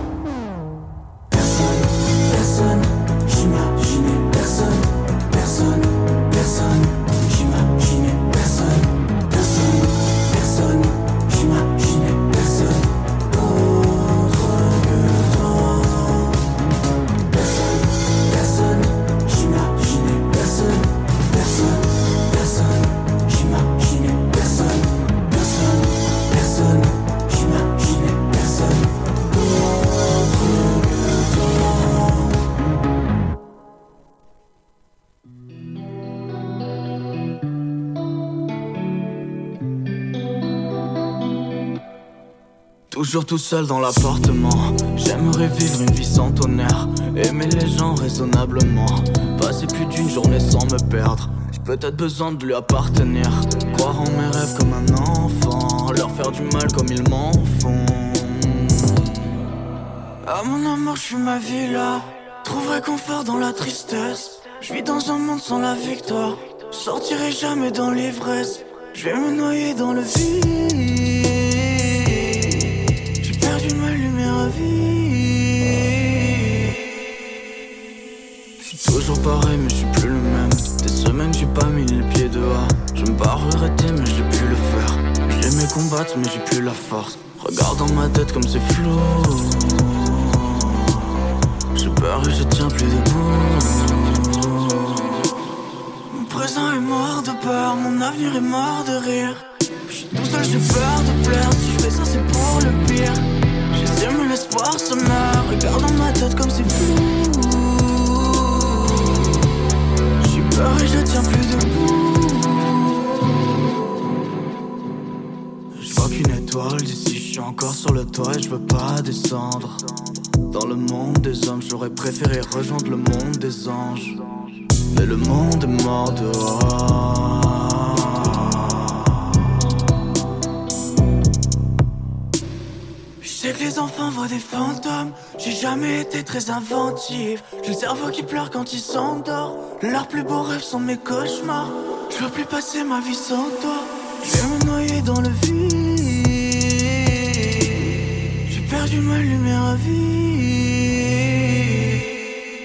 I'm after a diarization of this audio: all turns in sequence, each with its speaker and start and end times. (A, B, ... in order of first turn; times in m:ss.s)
0:01.3-0:16.3 A
0:17.3-0:28.9 A
0:42.9-0:59.0 A
1:00.2-1:16.9 A
1:18.6-1:31.2 A
1:31.7-1:35.3 A
1:36.1-1:49.2 A
1:50.2-1:52.9 A
1:55.8-1:59.9 A
2:00.5-2:04.2 A
2:04.9-2:09.4 A
2:13.2-2:32.2 A